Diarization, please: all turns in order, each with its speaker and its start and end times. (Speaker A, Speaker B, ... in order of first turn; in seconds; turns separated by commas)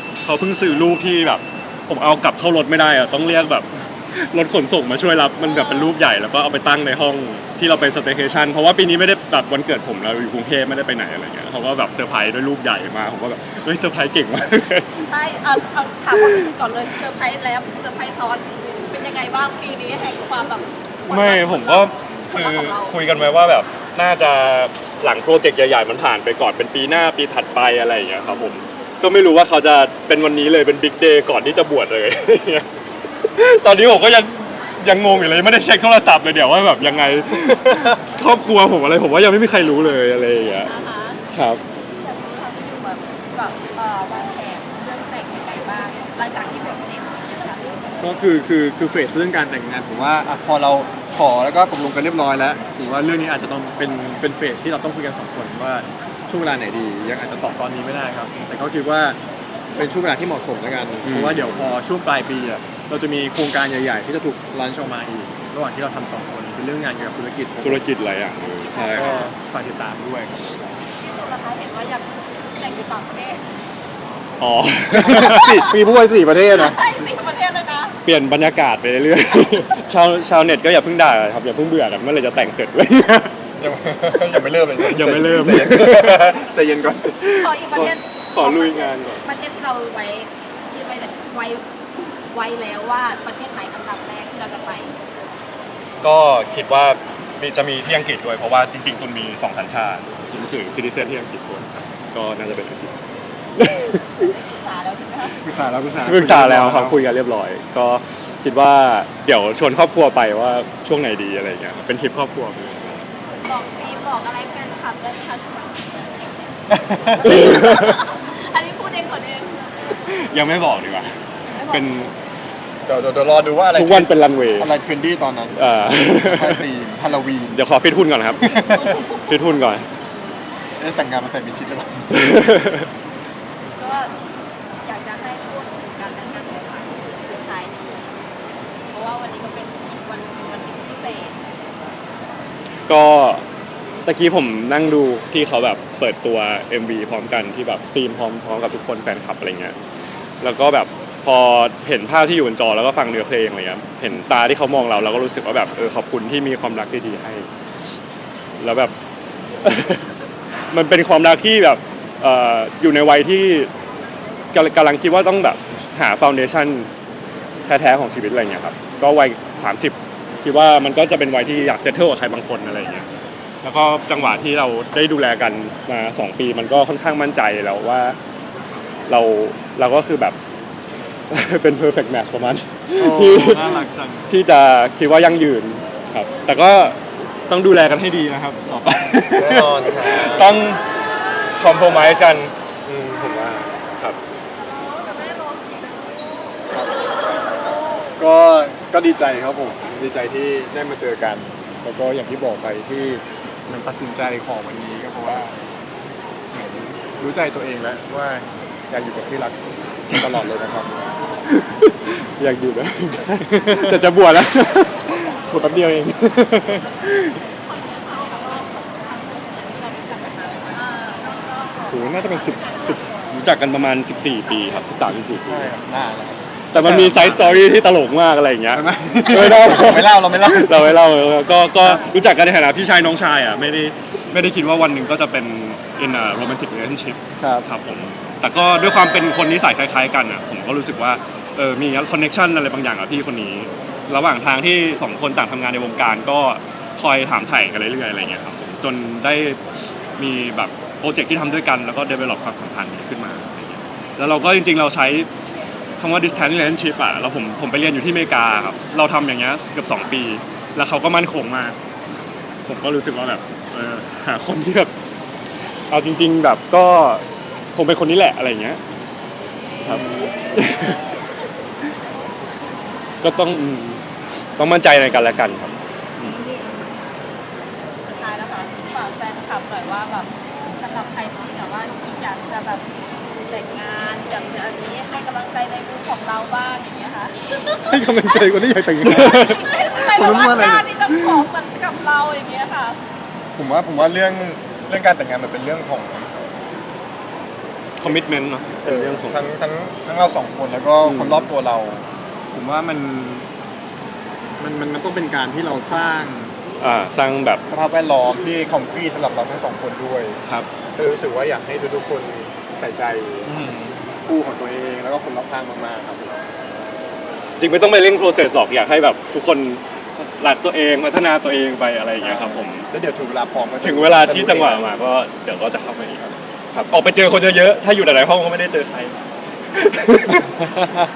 Speaker A: 0.2-14.8, Speaker B: 5.4-5.9, Speaker B: 14.9-23.0, Speaker A: 21.1-32.7, Speaker A: 33.3-40.7, Speaker C: 37.6-37.9, Speaker B: 40.6-41.2, Speaker A: 41.3-41.6, Speaker B: 41.9-47.8, Speaker C: 48.0-59.2, Speaker C: 59.7-67.8, Speaker A: 61.0-61.7, Speaker A: 67.6-69.2, Speaker B: 68.5-69.3, Speaker C: 68.9-70.3, Speaker B: 71.0-73.4, Speaker A: 74.4-75.7, Speaker C: 74.9-76.8, Speaker B: 75.4-75.7, Speaker B: 76.5-78.0, Speaker A: 78.0-83.3, Speaker C: 83.6-87.6, Speaker A: 84.8-86.3, Speaker B: 87.4-91.6, Speaker A: 87.7-89.2, Speaker B: 92.3-94.9, Speaker A: 96.0-102.9, Speaker A: 103.6-104.2, Speaker B: 104.1-105.5, Speaker C: 105.4-107.0, Speaker A: 106.0-113.0, Speaker B: 113.3-119.6, Speaker C: 116.7-117.2, Speaker A: 117.2-117.9, Speaker A: 120.1-121.1, Speaker B: 121.5-122.0, Speaker A: 121.6-122.1, Speaker C: 122.8-127.6, Speaker A: 123.7-124.7, Speaker A: 125.5-126.6, Speaker A: 127.5-129.9, Speaker B: 128.4-129.5, Speaker C: 128.5-128.8, Speaker C: 130.8-132.4, Speaker A: 132.1-132.9, Speaker B: 133.7-134.1, Speaker B: 134.8-138.1, Speaker B: 138.9-141.3, Speaker A: 142.9-143.4, Speaker A: 144.0-149.7, Speaker A: 150.4-157.5, Speaker A: 158.6-158.9, Speaker A: 159.6-160.1, Speaker A: 160.7-163.7, Speaker A: 164.5-166.9, Speaker A: 167.7-173.1, Speaker A: 173.6-178.2, Speaker A: 179.1-180.3, Speaker A: 181.3-187.0, Speaker C: 183.0-184.3, Speaker A: 187.5-190.8, Speaker C: 189.3-190.5, Speaker A: 191.5-194.2, Speaker C: 198.2-205.6, Speaker C: 206.5-209.6, Speaker C: 210.1-211.0, Speaker A: 211.5-215.0, Speaker C: 213.5-214.0, Speaker C: 215.2-217.0, Speaker B: 217.5-221.3, Speaker C: 221.9-223.1, Speaker A: 223.3-225.7, Speaker C: 225.5-227.7, Speaker A: 226.7-249.6, Speaker C: 228.7-231.0, Speaker C: 231.8-232.1, Speaker C: 237.4-237.6, Speaker A: 250.2-255.3, Speaker A: 256.0-261.8, Speaker A: 262.7-264.9, Speaker A: 265.9-267.2, Speaker A: 267.7-268.8, Speaker A: 269.8-271.1, Speaker A: 273.2-274.0, Speaker A: 274.6-276.4, Speaker B: 276.2-276.8, Speaker B: 278.0-282.9, Speaker B: 283.4-288.4, Speaker C: 287.9-291.5, Speaker A: 289.0-289.6, Speaker B: 289.0-293.0, Speaker C: 293.6-296.5, Speaker A: 298.0-299.5, Speaker C: 298.8-303.5, Speaker A: 301.0-301.5, Speaker C: 304.6-306.5, Speaker A: 306.8-307.6, Speaker C: 307.7-310.4, Speaker C: 310.9-313.6, Speaker A: 313.4-314.0, Speaker C: 314.2-316.4, Speaker A: 317.6-322.9, Speaker C: 322.2-324.8, Speaker A: 323.8-329.2, Speaker A: 329.8-330.9